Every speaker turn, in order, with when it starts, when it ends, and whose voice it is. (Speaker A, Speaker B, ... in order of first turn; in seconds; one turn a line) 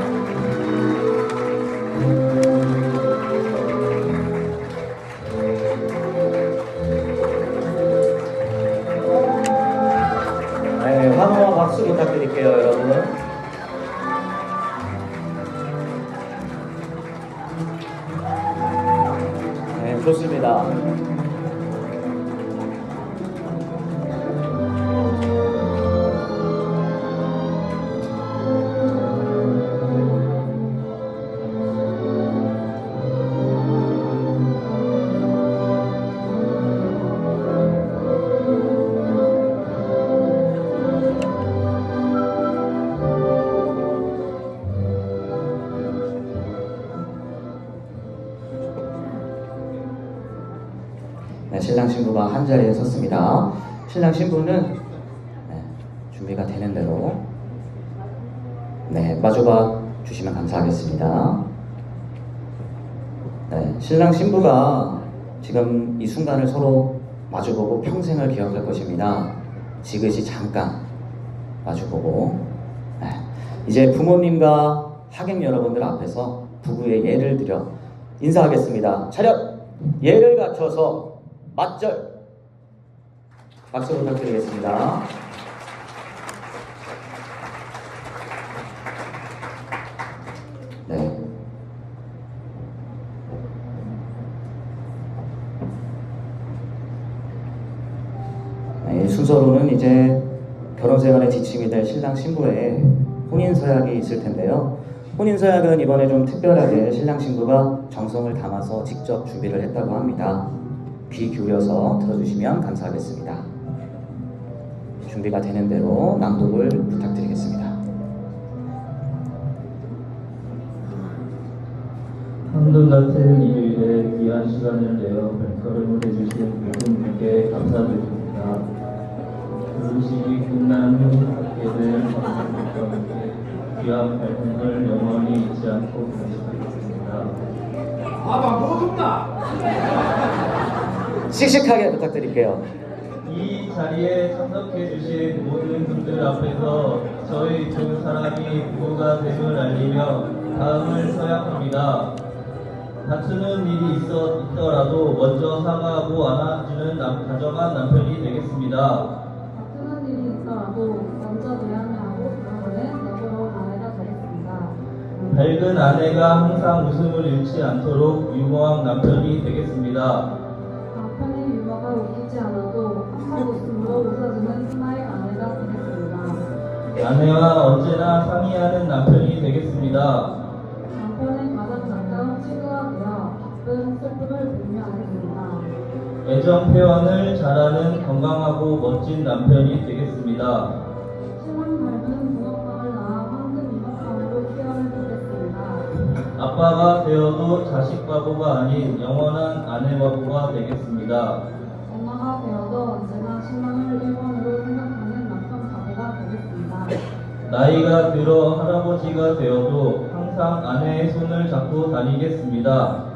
Speaker A: 10.8-13.2
Speaker A: 19.7-20.8
Speaker A: 51.5-54.8
Speaker A: 55.5-57.2
Speaker A: 58.9-61.4
Speaker A: 63.5-70.8
Speaker A: 71.6-72.5
Speaker A: 73.0-82.1
Speaker A: 83.7-85.1
Speaker A: 90.8-91.2
Speaker A: 98.8-100.2
Speaker A: 100.7-110.5
Speaker A: 111.1-113.5
Speaker A: 115.0-117.8
Speaker B: 122.5-128.7
Speaker B: 129.7-137.3
Speaker A: 141.3-142.6
Speaker B: 143.2-152.1
Speaker B: 153.0-159.1
Speaker C: 159.5-165.5
Speaker B: 165.3-170.3
Speaker C: 170.9-176.4
Speaker B: 177.0-180.4
Speaker C: 180.9-185.7
Speaker B: 186.2-190.8
Speaker C: 191.3-195.9
Speaker B: 196.3-201.4
Speaker C: 201.9-207.0
Speaker B: 207.4-213.0